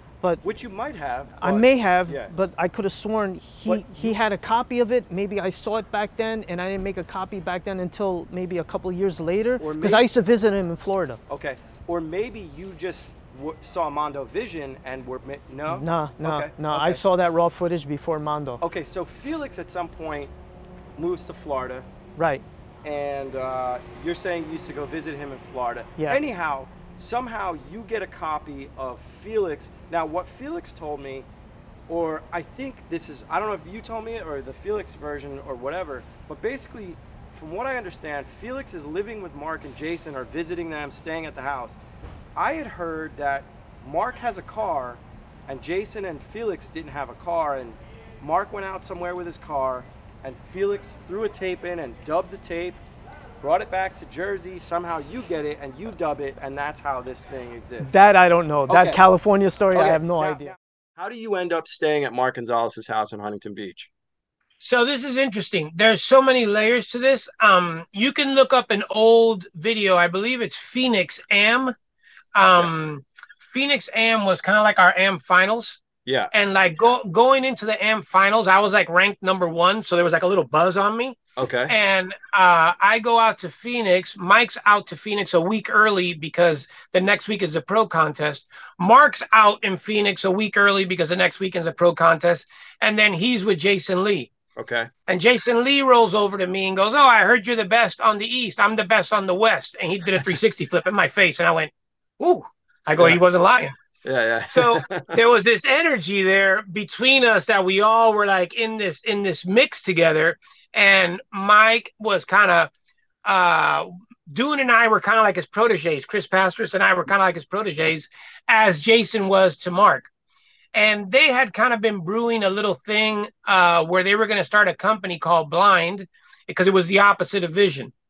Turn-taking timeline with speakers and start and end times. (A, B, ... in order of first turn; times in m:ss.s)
0:00.4-0:02.3 A
0:01.4-0:11.2 B
0:03.6-0:04.2 A
0:09.6-0:10.1 A
0:11.3-0:17.0 A
0:15.7-0:18.6 B
0:18.6-0:20.3 A
0:21.0-0:21.9 A
0:22.2-0:22.4 B
0:22.8-0:31.3 A
0:31.9-0:41.8 A
0:42.4-0:52.8 A
0:53.4-0:58.0 A
0:57.8-1:00.5 B
0:58.7-0:59.0 A
0:59.7-1:03.9 A
1:04.6-1:11.7 C
1:12.3-1:21.2 C
1:16.0-1:16.3 A
1:21.4-1:21.7 A
1:21.7-1:34.3 C
1:34.6-1:34.9 A
1:35.1-1:43.7 C
1:43.0-1:43.2 A
1:44.0-1:45.2 A
1:44.5-1:52.7 C
1:53.2-2:00.1 C
2:00.7-2:07.9 C